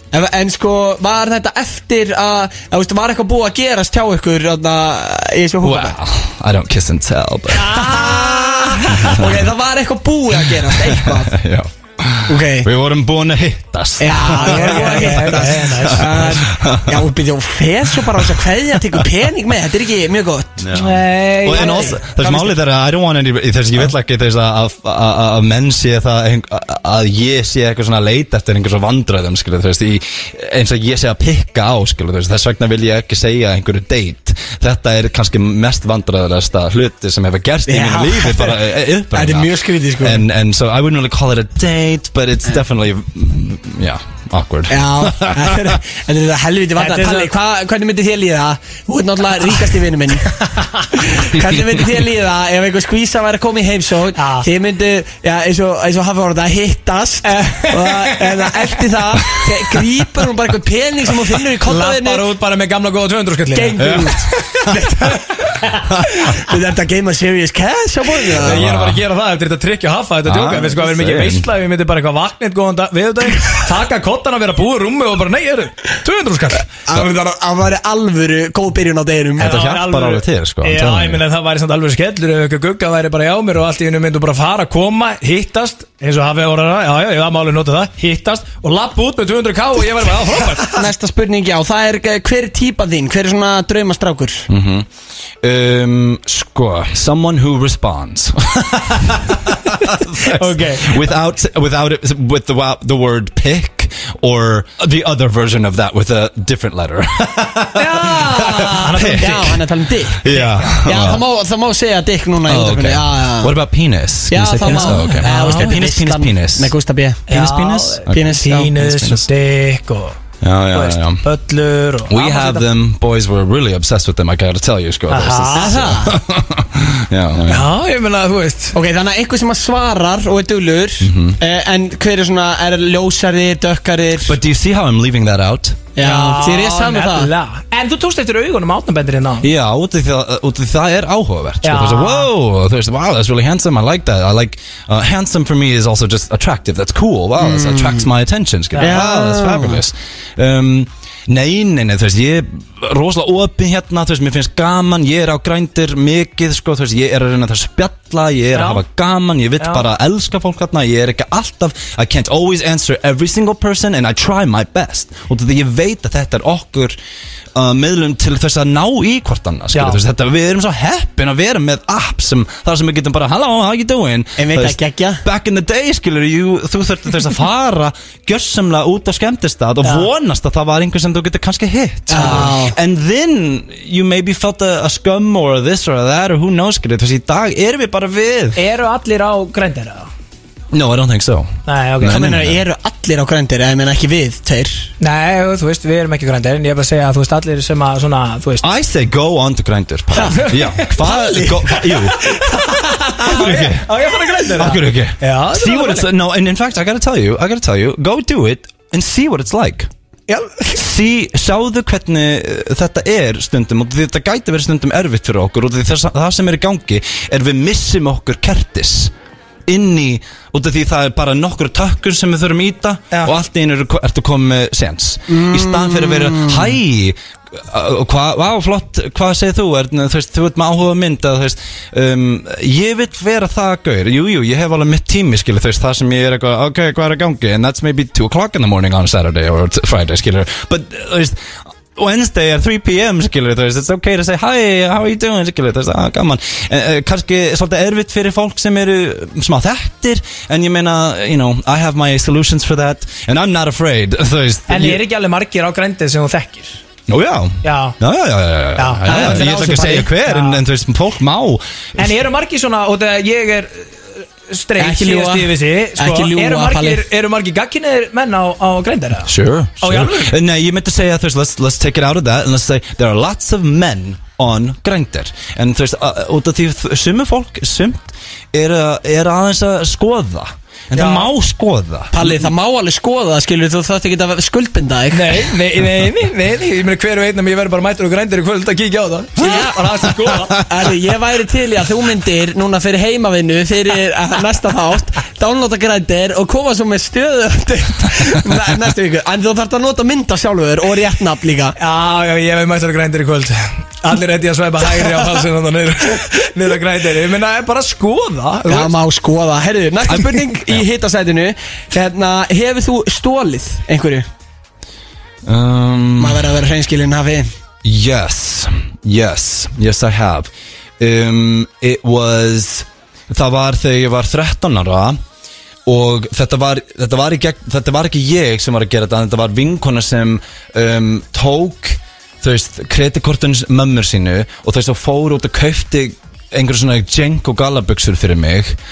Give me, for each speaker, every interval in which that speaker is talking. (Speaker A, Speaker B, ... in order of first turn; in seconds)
Speaker A: 0.1-6.0, 7.6-11.3, 12.3-12.7, 14.0-20.6, 21.6-21.9, 37.7-40.3, 44.7-50.4, 50.9-62.2, 63.5-65.3, 66.2-68.6, 76.8-79.6, 90.7-94.5, 108.9-110.3, 110.8-113.5, 114.3-117.3, 118.1-118.8, 125.5-126.2, 128.7-134.4, 135.9-137.3, 147.4-148.1, 148.8-149.8, 174.4-175.2, 182.1-182.8, 192.0-194.9, 200.1-200.4, 201.0-202.7, 225.3-226.8, 259.1-260.1, 264.8-267.0, 282.1-285.4, 289.4-289.8, 290.7-301.8, 308.7-314.3, 316.2-317.5
Speaker B: 5.6-7.7, 9.0-9.4, 10.6-17.1, 20.6-45.8, 63.8-64.8, 68.4-69.0, 70.2-71.5, 79.4-81.2, 94.5-94.9, 95.4-109.6, 110.2-111.2, 112.5-116.7, 117.3-119.3, 120.4-121.2, 122.1-127.7, 131.0-131.4, 134.3-135.9, 139.4-167.0, 167.6-188.6, 190.7-192.6, 198.6-202.2, 203.2-203.9, 204.6-209.9, 210.7-219.1, 219.7-241.4, 241.9-255.0, 257.1-262.1, 269.3-282.4, 310.1-310.8, 315.5-316.5, 317.8-325.2, 325.9-338.8
Speaker C: 7.5-9.2, 14.1-16.4, 20.7-22.6, 46.8-47.3, 50.4-51.1, 54.2-54.5, 57.2-58.8, 61.6-64.0, 68.4-76.7, 79.4-90.9, 100.2-101.0, 107.8-109.6, 110.3-110.8, 114.6-115.8, 117.3-120.2, 120.7-122.7, 125.1-125.9, 127.5-128.8, 136.0-139.5, 141.6-142.3, 148.8-149.0, 158.5-158.8, 159.6-159.8, 169.7-170.0, 179.8-180.1, 182.2-182.5, 188.6-190.1, 191.7-192.2, 195.0-198.7, 200.2-206.1, 210.3-210.7, 254.7-256.8, 257.6-258.0, 258.8-260.6, 262.0-270.4, 280.9-281.3, 285.1-290.6, 301.8-308.9